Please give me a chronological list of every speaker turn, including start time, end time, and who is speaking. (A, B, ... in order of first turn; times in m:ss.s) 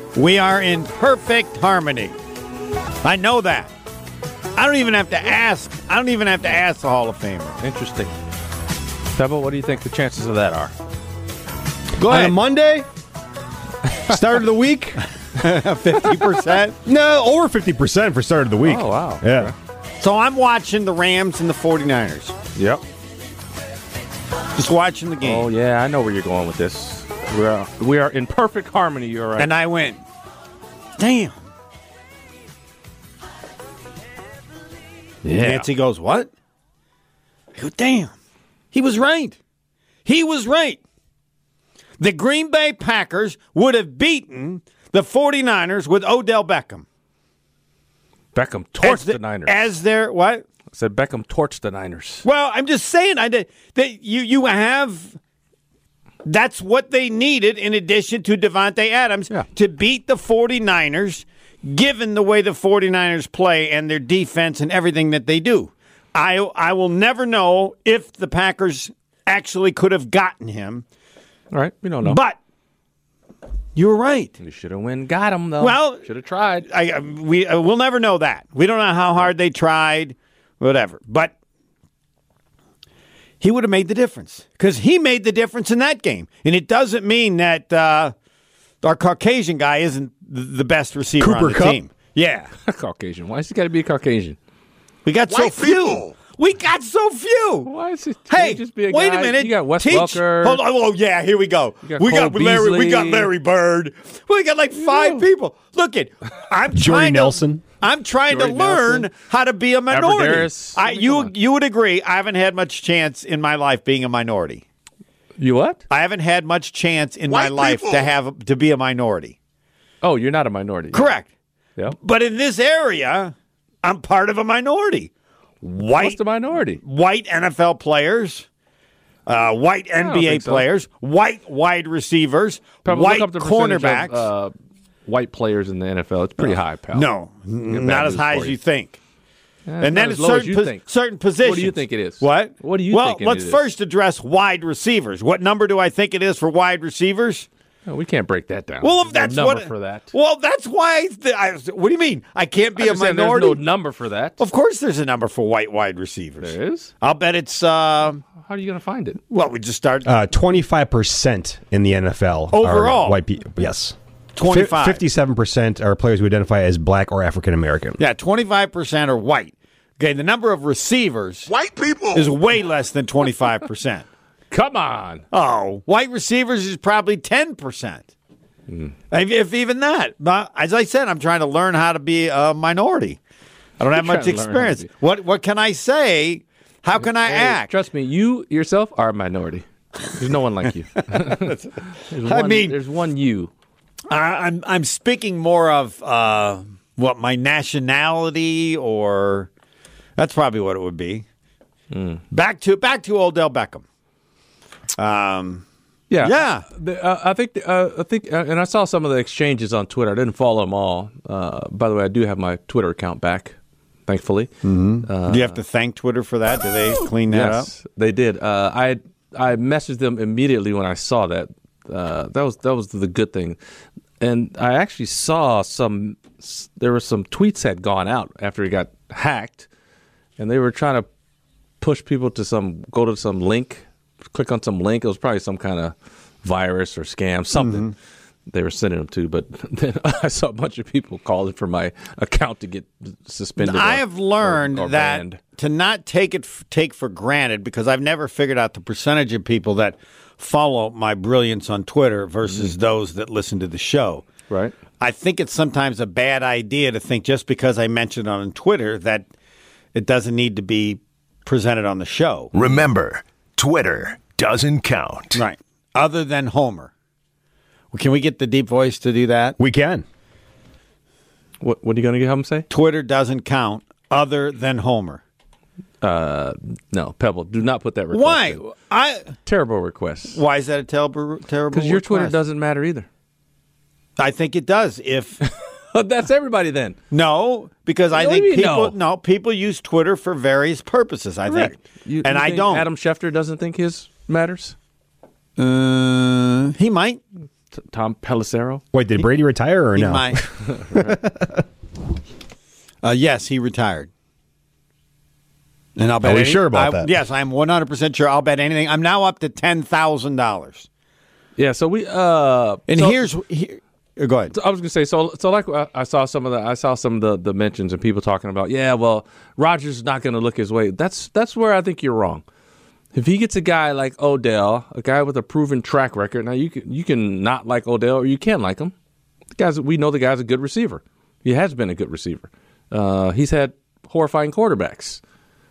0:00.2-0:02.2 A
0:03.0-0:03.7 A
0:04.6-0:07.6 A
0:07.6-0:08.1 B
0:09.1-0:10.7 B
0:12.0-0:12.9 C
0:12.0-0:12.4 A
0:13.9-0:15.0 C
0:15.4-0:16.8 A
0:16.8-0:19.5 C
0:18.6-0:19.5 B
0:20.0-0:22.4 A
0:22.6-0:22.8 B
0:24.6-0:25.5 A
0:25.2-0:29.5 B
0:29.4-0:30.0 A
0:31.0-0:31.3 A
0:35.2-0:35.7 B
0:35.4-0:36.3 A
0:37.6-0:38.1 A
0:38.7-0:39.4 A
0:40.0-0:40.8 A
0:42.0-0:46.8 A
0:48.3-0:49.7 B
0:48.8-0:50.4 A
0:50.7-0:52.2 B
0:52.2-0:55.2 A
0:56.2-1:10.8 A
1:11.5-1:12.2 B
1:12.0-1:12.4 A
1:13.8-1:14.4 A
1:14.4-1:16.7 B
1:15.6-1:16.0 A
1:16.6-1:21.3 A
1:23.4-1:28.1 A
1:28.8-1:32.5 A
1:31.2-1:31.8 C
1:32.6-1:34.4 B
1:35.0-1:37.7 A
1:35.3-1:36.0 D
1:37.6-1:40.6 B
1:38.3-1:54.6 A
1:41.8-1:43.3 B
1:44.8-1:45.2 B
1:46.7-1:47.6 C
1:48.3-1:49.1 B
1:49.9-1:51.3 B
1:55.4-1:55.8 B
1:55.9-1:59.4 A
1:57.3-1:58.1 D
2:00.0-2:01.1 B
2:00.9-2:01.3 A
2:02.0-2:05.1 A
2:05.6-2:06.2 A
2:05.9-2:06.8 B
2:06.8-2:08.5 A
2:09.3-2:14.3 A
2:10.0-2:10.7 B
2:12.8-2:14.5 B
2:15.1-2:17.1 B
2:16.4-2:19.0 A
2:17.7-2:18.6 B
2:19.7-2:20.9 B
2:19.8-2:27.5 A
2:21.4-2:23.6 B
2:27.9-2:30.1 B
2:28.8-2:33.6 A
2:32.8-2:34.4 B
2:34.4-2:38.2 A
2:36.4-2:36.9 B
2:38.3-2:39.2 B
2:39.3-2:40.1 A
2:40.0-2:48.0 C
2:42.5-2:43.2 A
2:44.4-2:45.0 A
2:48.0-2:51.6 A
2:51.6-2:52.3 D
2:52.1-2:54.0 A
2:54.5-2:55.2 B
2:55.3-2:58.1 A
2:58.7-2:58.9 B
2:59.1-3:03.2 A
3:03.8-3:07.7 A
3:03.9-3:04.9 B
3:07.0-3:13.5 B
3:11.3-3:11.6 A
3:12.2-3:12.8 A
3:14.1-3:19.5 A
3:20.2-3:21.2 A
3:21.9-3:22.2 B
3:22.3-3:23.8 A
3:25.0-3:25.6 A
3:26.1-3:33.6 B
3:26.2-3:26.6 A
3:34.1-3:34.5 B
3:34.6-3:37.7 A
3:35.0-3:35.6 B
3:37.2-3:43.6 B
3:44.2-3:49.7 B
3:50.4-3:51.1 B
3:51.8-3:57.9 B
3:57.6-3:57.9 A
3:58.5-4:05.4 B
4:03.6-4:14.3 A
4:12.4-4:12.7 B
4:14.5-4:14.7 B
4:15.0-4:19.3 A
4:20.0-4:22.5 A
4:22.5-4:25.4 E
4:25.3-4:26.9 A
4:27.9-4:29.6 A
4:29.6-4:30.0 C
4:31.6-4:32.7 B
4:32.7-4:35.2 A
4:36.0-4:38.6 B
4:38.1-4:39.4 A
4:39.4-4:40.4 B
4:40.3-4:42.4 A
4:41.7-4:43.1 B
4:44.2-4:45.4 A
4:45.4-4:47.0 B
4:47.1-4:52.9 A
4:48.1-4:49.0 B
4:51.5-4:54.8 B
4:55.6-4:57.2 A
4:57.7-4:58.8 B
4:58.9-5:01.6 C
5:00.0-5:00.4 A
5:00.6-5:01.2 B
5:03.0-5:04.1 A
5:06.0-5:10.9 A
5:06.2-5:07.1 C
5:11.6-5:13.2 B
5:12.9-5:14.5 A
5:14.5-5:22.4 B
5:23.1-5:28.9 B
5:29.6-5:35.2 B